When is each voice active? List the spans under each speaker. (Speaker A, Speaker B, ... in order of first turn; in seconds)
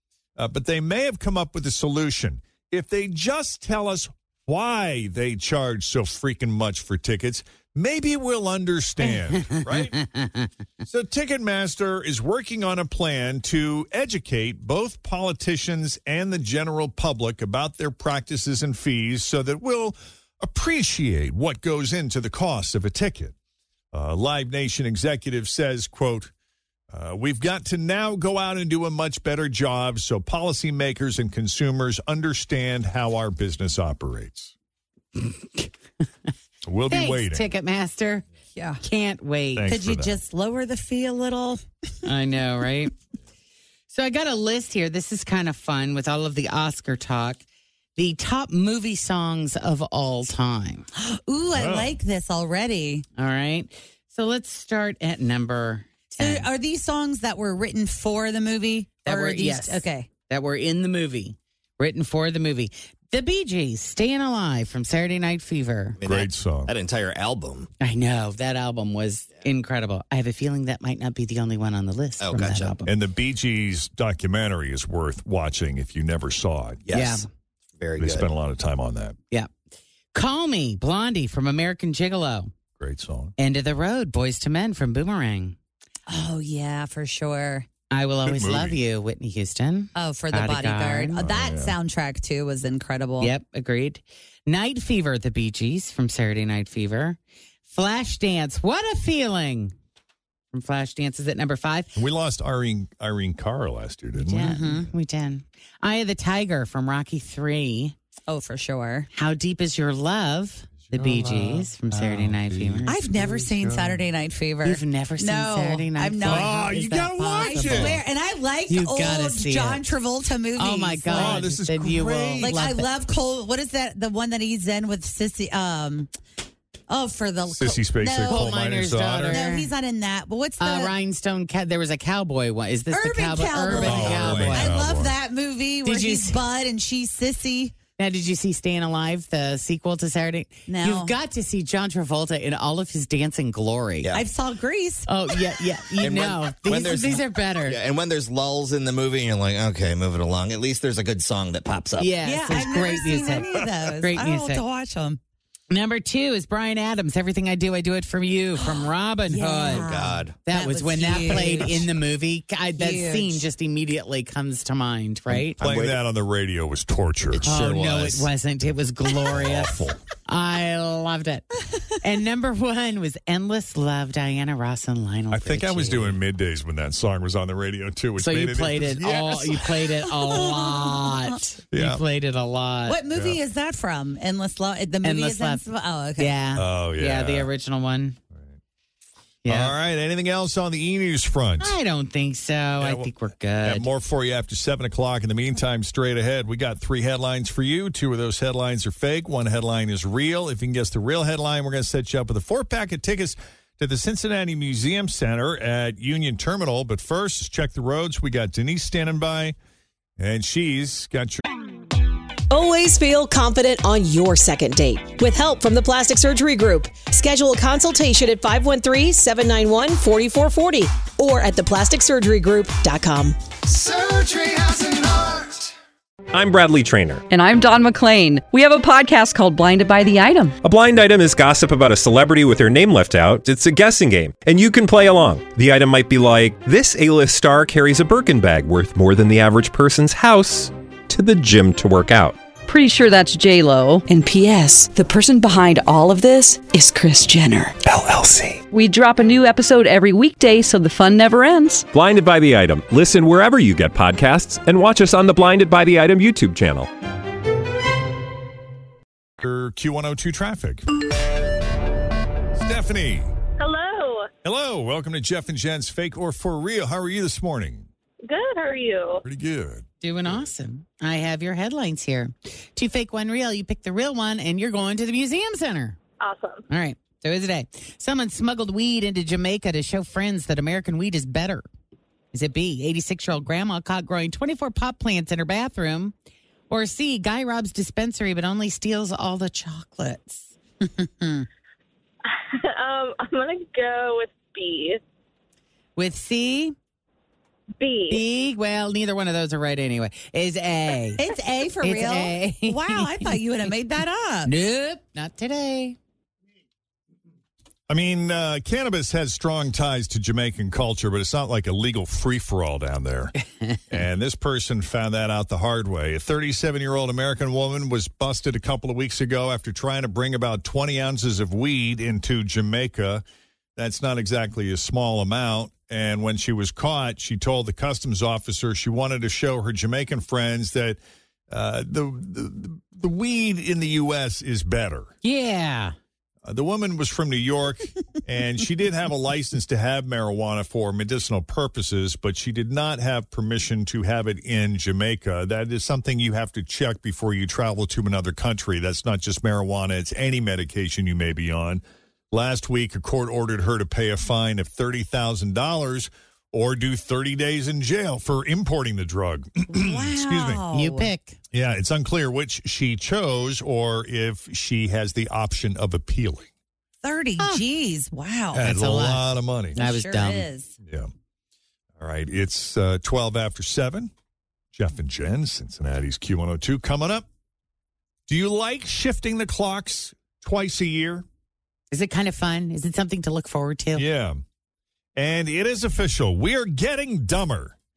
Speaker A: 0.4-10.0, 10.8-23.3, 23.9-26.3, 26.9-34.5, 36.6-37.5, 39.5-40.2, 51.5-52.0, 66.0-66.7, 72.8-76.8, 78.0-79.2, 82.8-83.3, 88.2-88.8, 91.2-91.8, 102.0-104.6, 110.9-114.0, 116.2-117.9, 121.1-122.6, 127.5-129.4, 133.8-135.2, 165.6-167.5, 169.2-170.0, 175.3-180.0, 181.7-182.0, 183.1-183.4, 186.5-187.5, 189.5-191.8, 192.8-193.1, 193.6-209.6, 210.2-211.4, 259.4-260.8, 262.6-263.3, 264.4-267.9, 269.2-270.4, 307.9-313.4, 313.9-323.2, 323.8-331.0, 331.5-335.1, 336.4-360.6, 361.5-366.5, 368.5-369.8, 372.0-374.1, 374.7-377.2, 378.3-381.2, 383.9-384.4, 385.1-387.8
Speaker B: 9.0-10.5, 35.1-35.7, 36.9-38.2, 38.8-39.7, 42.0-42.9, 43.9-47.4, 48.0-50.9, 53.2-56.5, 59.0-66.0, 67.8-72.9, 76.9-77.2, 80.1-82.5, 83.4-85.5, 87.9-91.2, 93.2-99.7, 100.5-101.9, 104.1-107.9, 109.1-112.9, 114.6-116.6, 117.4-118.0, 118.7-119.9, 120.5-122.9, 128.2-129.7, 130.6-134.7, 135.8-136.4, 138.0-144.1, 145.1-147.8, 152.0-154.6, 155.7-165.6, 167.4-176.2, 178.2-183.0, 185.0-185.6, 186.2-188.2, 189.4-189.8, 191.6-193.9, 270.0-276.0, 276.7-281.6, 282.3-286.1, 286.7-290.5, 296.0-296.7, 298.1-301.2, 301.8-303.4, 304.4-306.0, 335.2-335.9, 360.7-361.4, 368.6-370.5, 381.9-384.1
Speaker C: 38.5-38.8, 39.6-41.6, 51.0-53.0, 56.2-60.1, 86.1-87.7, 89.9-93.3, 104.4-104.8, 108.3-109.1, 112.8-121.5, 122.4-126.1, 126.9-128.5, 129.3-130.9, 132.9-137.8, 140.7-141.1, 144.1-145.1, 152.2-155.2, 158.6-161.8, 162.8-163.4, 180.1-181.1, 182.9-186.3, 291.0-291.4, 301.2-304.5, 359.7-361.1, 367.0-368.7, 369.8-370.7
Speaker D: 66.0-67.7, 72.2-72.8, 76.8-77.2, 77.8-78.3, 134.0-134.5, 146.0-152.1, 159.7-160.4, 165.3-166.0, 167.3-168.3
Speaker E: 212.5-223.4
Speaker F: 226.3-227.2, 230.6-242.4, 251.9-256.9
Speaker G: 227.3-230.6, 242.7-247.7, 248.7-251.9
Speaker H: 263.6-264.3, 268.2-269.2, 276.2-276.6, 292.8-295.0, 297.8-298.2